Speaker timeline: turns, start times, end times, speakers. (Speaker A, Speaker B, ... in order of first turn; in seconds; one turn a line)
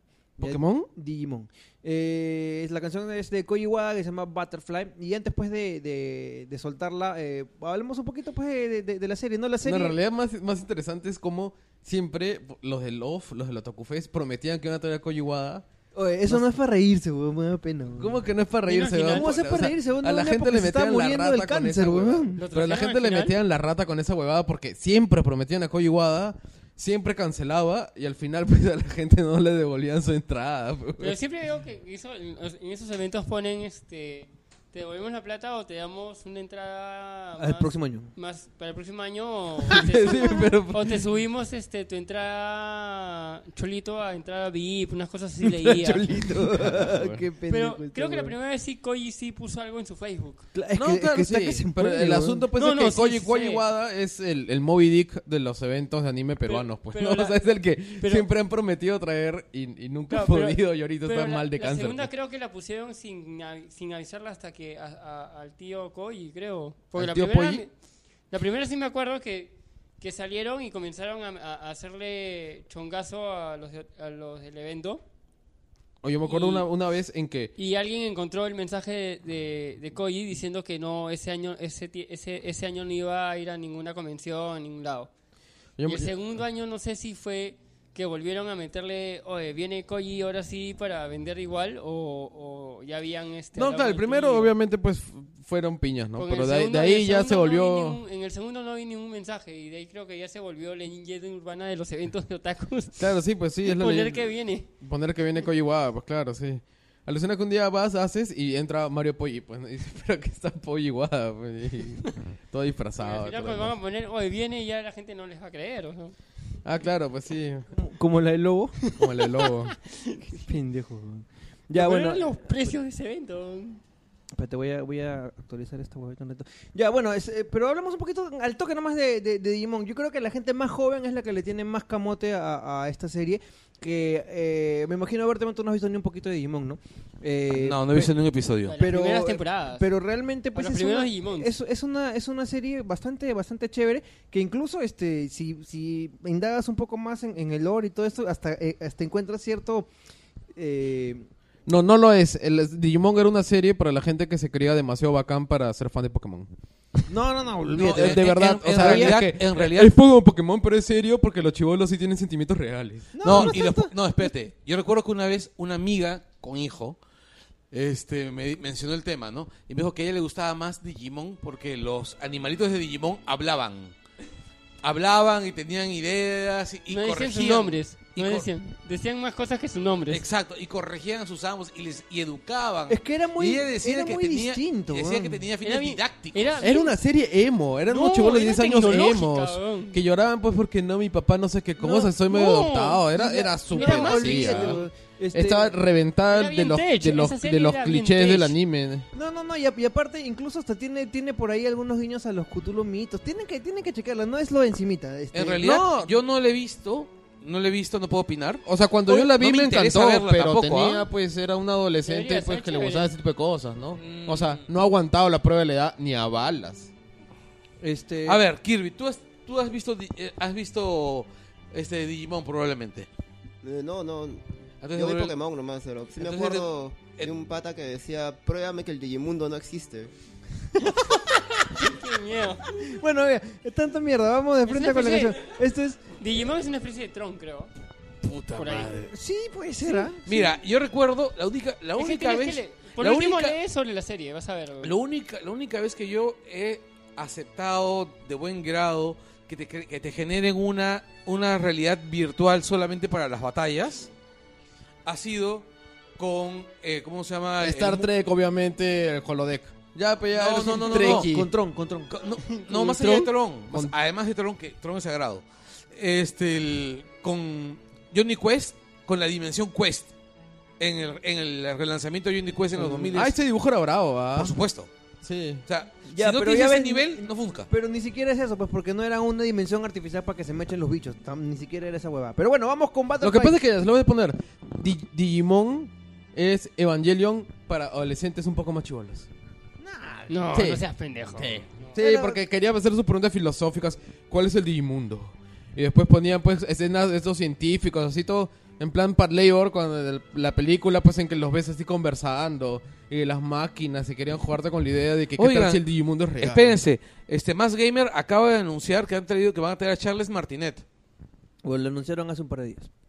Speaker A: 0.4-10.0
Speaker B: 0.4-0.9
Speaker B: 9.7-15.7
Speaker A: 15.9-18.2
Speaker B: 18.0-31.2
Speaker C: 18.7-19.3
Speaker A: 19.1-22.4
Speaker C: 22.4-23.4
Speaker C: 31.0-46.1
Speaker A: 37.4-38.1
Speaker B: 39.7-41.0
Speaker A: 45.6-48.4
Speaker B: 46.4-47.2
Speaker C: 47.5-50.5
Speaker A: 50.5-52.5
Speaker B: 50.8-62.1
Speaker C: 52.6-53.6
Speaker C: 56.5-57.4
Speaker C: 58.0-58.3
Speaker C: 60.1-67.7
Speaker B: 67.0-67.6
Speaker C: 68.3-75.0
Speaker B: 76.0-77.5
Speaker C: 76.2-76.7
Speaker C: 77.6-85.1
Speaker B: 85.8-86.2
Speaker C: 85.9-94.5
Speaker B: 93.5-98.0
Speaker C: 96.2-103.1
Speaker B: 103.0-113.7
Speaker C: 103.6-104.7
Speaker C: 113.0-116.2
Speaker B: 116.7-117.7
Speaker A: 117.8-118.8
Speaker B: 119.0-119.8
Speaker C: 119.8-120.4
Speaker A: 120.3-122.3
Speaker C: 121.7-123.8
Speaker A: 124.3-138.1
Speaker D: 137.5-138.8
Speaker C: 138.7-139.9
Speaker A: 138.8-149.9
Speaker C: 140.5-141.5
Speaker A: 150.5-151.3
Speaker B: 151.7-156.5
Speaker A: 157.1-159.2
Speaker B: 157.8-163.6
Speaker D: 157.8-159.9
Speaker A: 163.2-164.0
Speaker D: 163.2-167.0
Speaker D: 167.7-173.9
Speaker D: 174.8-178.5
Speaker C: 176.9-180.3
Speaker D: 180.1-186.6
Speaker A: 182.9-185.4
Speaker C: 185.6-186.9
Speaker B: 186.6-199.1
Speaker C: 187.9-190.0
Speaker A: 191.8-192.2
Speaker C: 192.3-193.0
Speaker A: 193.1-195.8
Speaker C: 193.7-194.8
Speaker C: 196.3-198.6
Speaker A: 199.1-205.8
Speaker D: 205.3-211.1
Speaker B: 205.6-206.1
Speaker B: 208.7-216.9
Speaker C: 212.1-213.1
Speaker D: 214.0-214.7
Speaker A: 217.8-218.4
Speaker D: 218.3-223.1
Speaker E: 223.6-230.1
Speaker D: 224.8-225.4
Speaker D: 226.2-227.3
Speaker C: 231.6-232.7
Speaker A: 232.7-236.0
Speaker C: 234.7-235.5
Speaker C: 236.2-237.7
Speaker D: 238.2-239.1
Speaker C: 238.5-239.1
Speaker A: 239.1-240.2
Speaker C: 239.9-240.4
Speaker D: 240.2-243.6
Speaker C: 242.0-244.9
Speaker D: 244.8-254.1
Speaker D: 255.1-258.1
Speaker B: 257.6-261.5
Speaker D: 260.3-261.3
Speaker A: 260.9-262.9
Speaker D: 262.1-270.1
Speaker C: 262.9-263.3
Speaker D: 270.8-273.4
Speaker A: 272.8-273.1
Speaker B: 273.1-274.6
Speaker D: 274.4-274.9
Speaker B: 275.2-275.6
Speaker D: 275.7-277.7
Speaker A: 276.1-283.6
Speaker B: 283.2-289.3
Speaker A: 289.8-290.4
Speaker C: 290.3-291.9
Speaker B: 290.5-290.8
Speaker B: 291.4-306.8
Speaker A: 292.0-292.4
Speaker D: 305.4-305.8
Speaker D: 306.4-310.9
Speaker A: 311.6-312.9